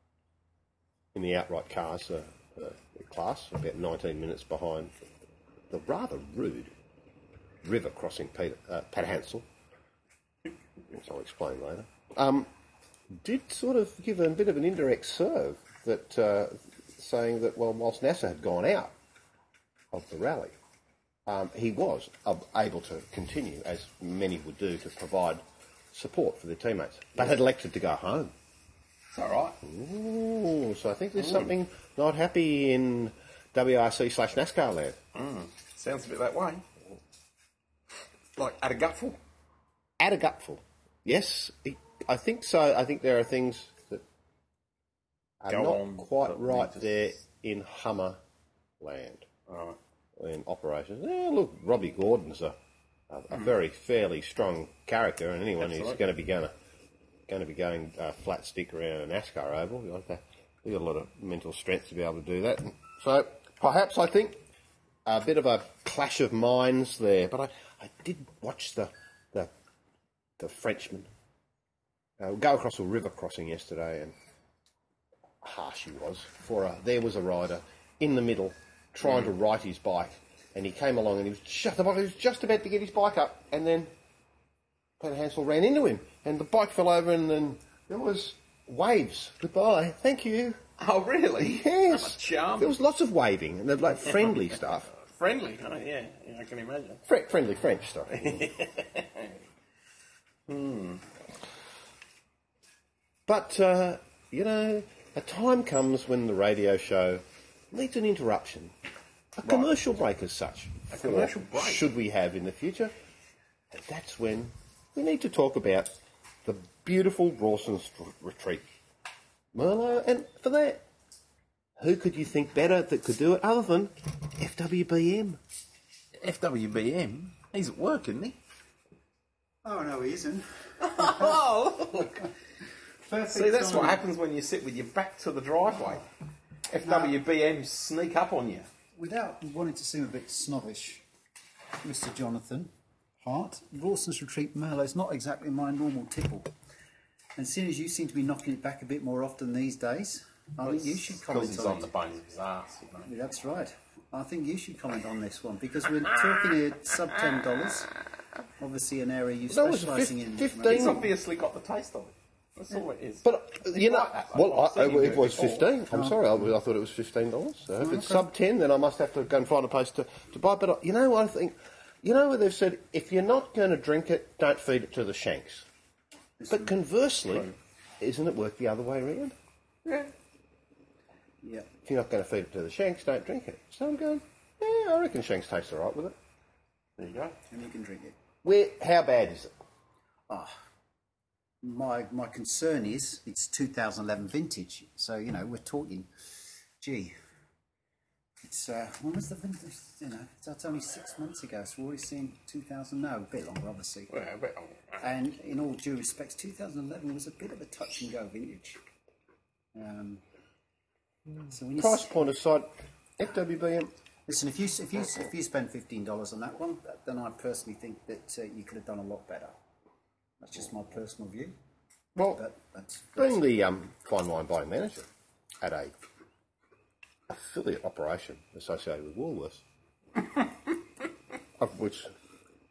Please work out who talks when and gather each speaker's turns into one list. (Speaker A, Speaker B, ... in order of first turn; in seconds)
Speaker A: 1.1-4.9, 5.7-6.7, 7.6-9.5, 10.9-12.5, 13.1-18.9, 19.9-20.5, 21.3-25.4, 25.9-28.3, 29.6-35.0, 40.0-44.0, 45.4-48.2, 48.8-49.3, 50.2-52.6, 53.1-56.5, 57.3-64.4, 65.1-69.5, 70.4-71.1, 72.2-74.2, 75.4-83.9, 85.0-90.6, 91.4-94.9, 97.1-98.5, 103.3-108.7, 109.4-112.9, 113.7-115.9, 116.5-118.6, 119.5-120.8, 121.8-125.4, 159.5-161.1, 163.2-175.7, 176.5-179.3, 181.8-186.2, 188.4-189.5, 211.8-213.9, 223.2-225.1, 225.6-225.9, 227.3-229.6, 231.6-232.1
Speaker B: 29.1-29.6, 31.2-31.5, 35.1-36.7, 38.4-39.2, 45.5-47.2, 49.5-49.8, 55.6-56.0, 90.8-92.8, 95.0-97.0, 98.1-99.4, 100.5-101.0, 109.4-109.7, 110.9-111.9, 126.2-128.4, 130.8-132.3, 133.3-136.1, 136.7-138.7, 150.6-153.1, 160.7-165.7, 179.8-180.1, 187.0-187.4, 204.1-205.0
Speaker C: 129.6-131.4, 133.0-134.0, 136.8-137.2, 138.9-141.1, 141.8-146.5, 147.4-151.9, 153.1-157.9, 158.6-161.1, 165.9-166.3, 167.8-168.3, 176.4-176.7, 181.4-181.7, 187.5-188.2, 190.3-190.5, 191.6-196.1, 196.8-197.1, 198.4-204.1, 205.0-208.8, 209.7-210.2, 211.5-212.2, 214.3-219.5, 220.4-221.6, 222.3-223.4